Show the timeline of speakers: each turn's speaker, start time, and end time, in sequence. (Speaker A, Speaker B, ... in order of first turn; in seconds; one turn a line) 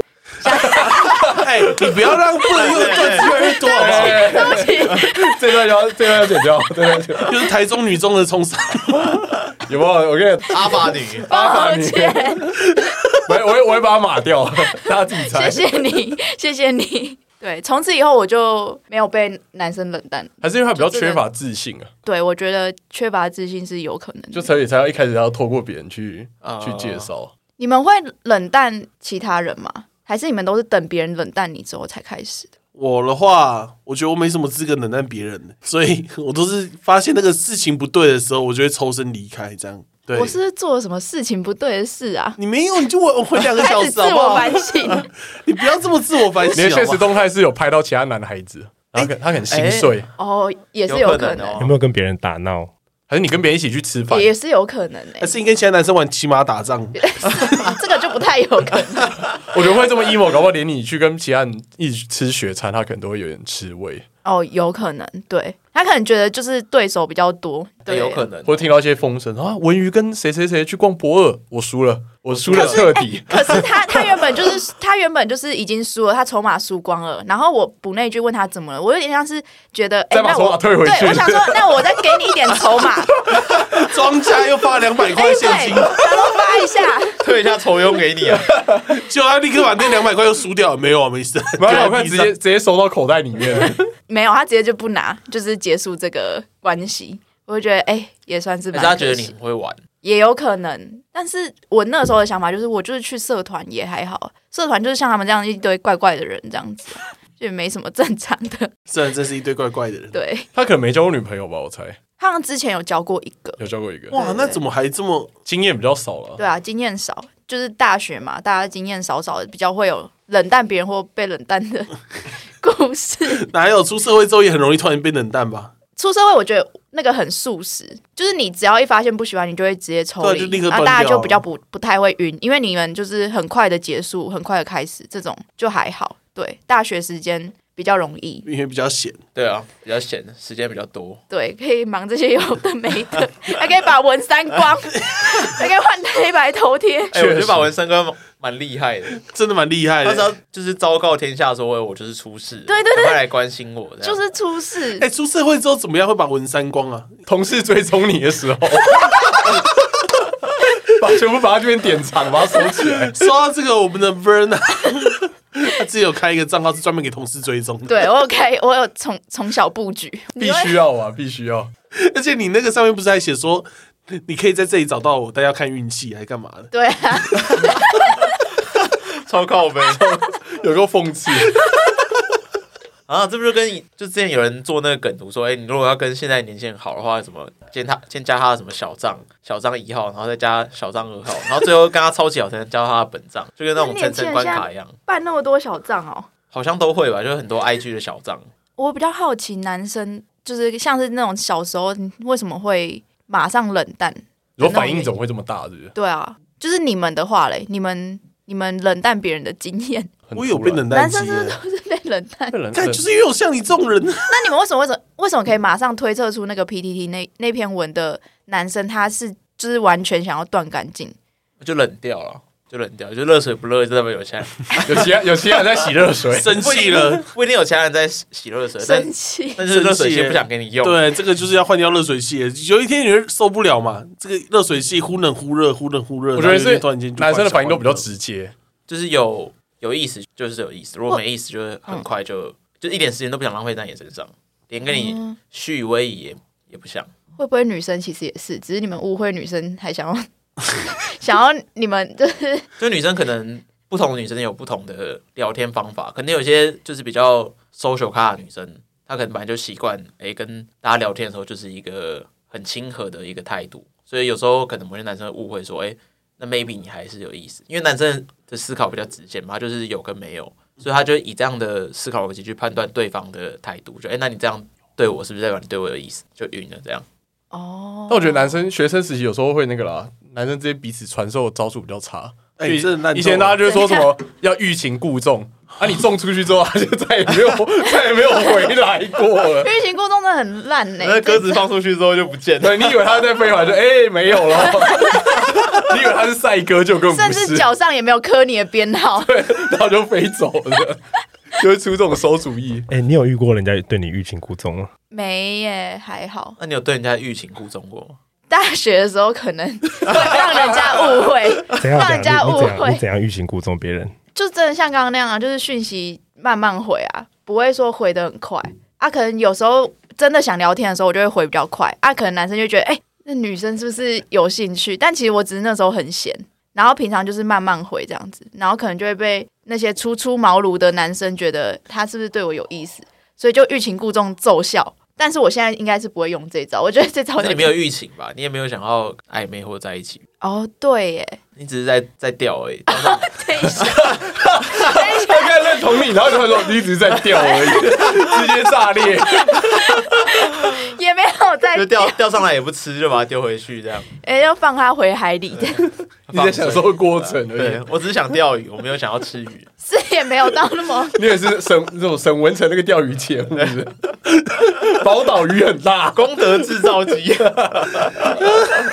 Speaker A: 0.4-1.2
Speaker B: 0.8-1.4
Speaker C: 1.3-4.4
Speaker D: 2.5-4.1
Speaker B: 3.1-7.3
Speaker A: 3.2-5.4
Speaker C: 7.2-9.0
Speaker B: 9.7-15.8
Speaker D: 10.5-11.3
Speaker A: 11.3-12.5
Speaker A: 15.1-21.2
Speaker B: 20.4-21.9
Speaker A: 22.0-24.5
Speaker B: 24.3-27.3
Speaker D: 26.4-27.1
Speaker A: 27.6-32.5
Speaker C: 32.7-40.4
Speaker A: 40.1-42.4
Speaker C: 42.4-44.6
Speaker A: 43.5-45.1
Speaker C: 45.4-47.1
Speaker B: 46.5-50.1
Speaker D: 49.5-49.9
Speaker A: 50.2-51.6
Speaker D: 50.9-51.7
Speaker E: 51.6-52.7
Speaker B: 53.1-54.3
Speaker A: 54.1-55.3
Speaker C: 55.2-57.7
Speaker A: 56.9-59.2
Speaker B: 59.5-64.0
Speaker A: 64.2-68.2
Speaker D: 67.9-68.6
Speaker B: 68.4-73.8
Speaker D: 72.4-72.9
Speaker A: 72.5-83.2
Speaker B: 80.1-82.2
Speaker B: 83.3-83.6
Speaker C: 83.8-86.1
Speaker A: 85.1-87.2
Speaker D: 87.2-88.5
Speaker B: 88.5-88.9
Speaker C: 88.9-92.3
Speaker B: 91.6-93.9
Speaker A: 94.1-99.3
Speaker D: 98.7-99.8
Speaker A: 100.0-108.7
Speaker C: 108.9-110.2
Speaker A: 110.1-110.5
Speaker B: 110.5-112.0
Speaker A: 112.2-113.6
Speaker B: 113.6-114.2
Speaker C: 114.1-115.3
Speaker A: 114.1-114.6
Speaker B: 115.4-116.4
Speaker A: 116.4-122.0
Speaker A: 122.6-123.5
Speaker C: 123.4-125.7
Speaker A: 126.0-138.4
Speaker C: 130.2-131.4
Speaker C: 138.4-139.2
Speaker D: 139.3-141.2
Speaker A: 141.3-147.2
Speaker D: 147.1-149.2
Speaker B: 147.1-147.7
Speaker C: 149.2-150.3
Speaker D: 150.0-154.2
Speaker A: 152.7-153.2
Speaker A: 154.0-155.0
Speaker C: 155.0-157.2
Speaker B: 157.2-159.6
Speaker B: 161.0-163.1
Speaker C: 163.1-168.0
Speaker A: 167.9-170.8
Speaker B: 170.4-171.7
Speaker C: 172.0-176.7
Speaker A: 176.7-177.8
Speaker D: 179.2-180.0
Speaker B: 179.9-181.6
Speaker D: 183.1-194.9
Speaker A: 193.8-196.3
Speaker D: 196.5-198.5
Speaker A: 198.8-205.1
Speaker B: 204.6-205.9
Speaker A: 205.9-210.1
Speaker B: 210.3-210.9
Speaker C: 210.3-211.6
Speaker A: 210.9-212.6
Speaker B: 212.5-213.0
Speaker C: 212.7-214.3
Speaker A: 214.3-221.1
Speaker D: 221.6-225.1
Speaker B: 224.8-226.6
Speaker C: 226.3-227.2
Speaker D: 226.6-231.0
Speaker A: 228.8-229.6
Speaker C: 229.7-238.1
Speaker B: 236.3-238.5
Speaker D: 238.9-247.1
Speaker A: 244.9-245.4
Speaker A: 247.4-252.7
Speaker D: 252.8-277.0
Speaker A: 277.5-278.6
Speaker B: 278.1-289.7
Speaker C: 282.6-283.6
Speaker A: 283.6-284.1
Speaker A: 289.6-291.6
Speaker D: 291.0-293.0
Speaker B: 292.6-297.7
Speaker A: 297.1-299.3
Speaker B: 299.2-301.0
Speaker B: 301.6-302.9
Speaker E: 302.9-304.9
Speaker A: 305.1-306.6
Speaker D: 306.6-308.2
Speaker A: 308.5-313.0
Speaker E: 311.8-314.1
Speaker A: 314.3-337.7
Speaker D: 337.4-340.2
Speaker A: 340.4-341.4
Speaker D: 341.6-344.2
Speaker A: 342.9-344.1
Speaker B: 343.8-350.0
Speaker A: 344.7-345.7
Speaker A: 347.4-348.1
Speaker A: 349.2-352.3
Speaker D: 351.7-354.1
Speaker A: 354.2-355.9
Speaker B: 356.3-357.8
Speaker D: 356.3-359.7
Speaker A: 359.8-361.2
Speaker B: 361.1-366.7
Speaker D: 366.1-368.4
Speaker B: 367.4-368.0